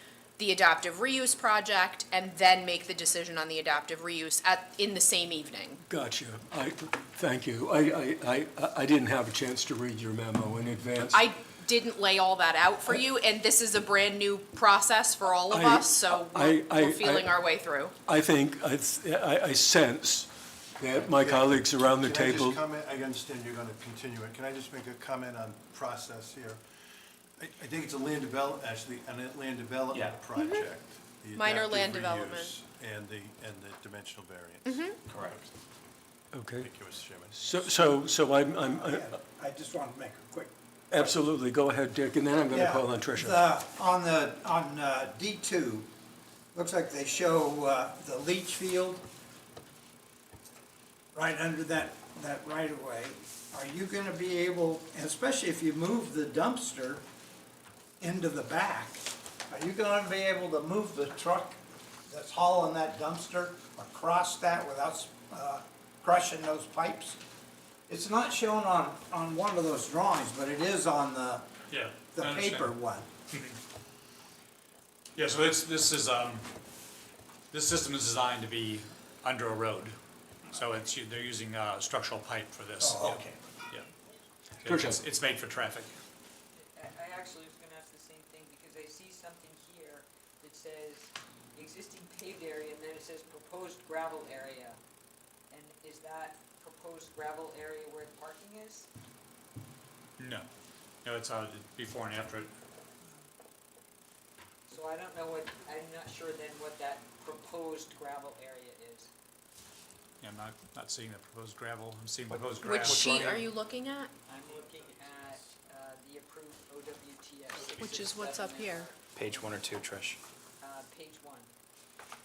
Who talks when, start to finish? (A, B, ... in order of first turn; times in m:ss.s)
0:00.4-0:05.8 A
0:05.8-0:11.3 B
0:11.1-0:17.9 A
0:15.5-0:17.3 B
0:18.1-0:22.6 B
0:21.2-0:26.6 C
0:27.4-0:35.4 C
0:29.9-0:30.2 D
0:30.4-0:30.6 A
0:31.4-0:32.6 A
0:34.7-0:35.0 A
0:35.1-0:35.5 D
0:36.3-0:36.7 B
0:36.6-0:37.6 C
0:37.3-0:39.2 B
0:38.7-0:40.5 E
0:40.9-0:43.4 B
0:42.5-0:45.9 E
0:46.5-0:49.0 E
0:51.1-0:57.0 E
0:58.0-1:01.6 E
1:02.1-1:07.2 E
1:07.9-1:11.5 E
1:11.7-1:12.8 F
1:12.1-1:13.1 E
1:13.3-1:13.6 F
1:15.2-1:16.5 F
1:17.5-1:20.0 F
1:20.5-1:23.9 F
1:22.8-1:23.4 E
1:24.6-1:25.9 F
1:24.6-1:25.0 B
1:26.6-1:34.8 G
1:35.5-1:38.9 G
1:40.2-1:40.5 F
1:41.0-1:42.5 F
1:44.7-1:49.1 G
1:50.2-1:53.3 F
1:52.3-1:53.5 D
1:52.6-1:54.1 A
1:54.3-1:59.8 G
1:57.8-1:58.9 A
1:59.2-2:00.2 D
2:00.6-2:01.5 G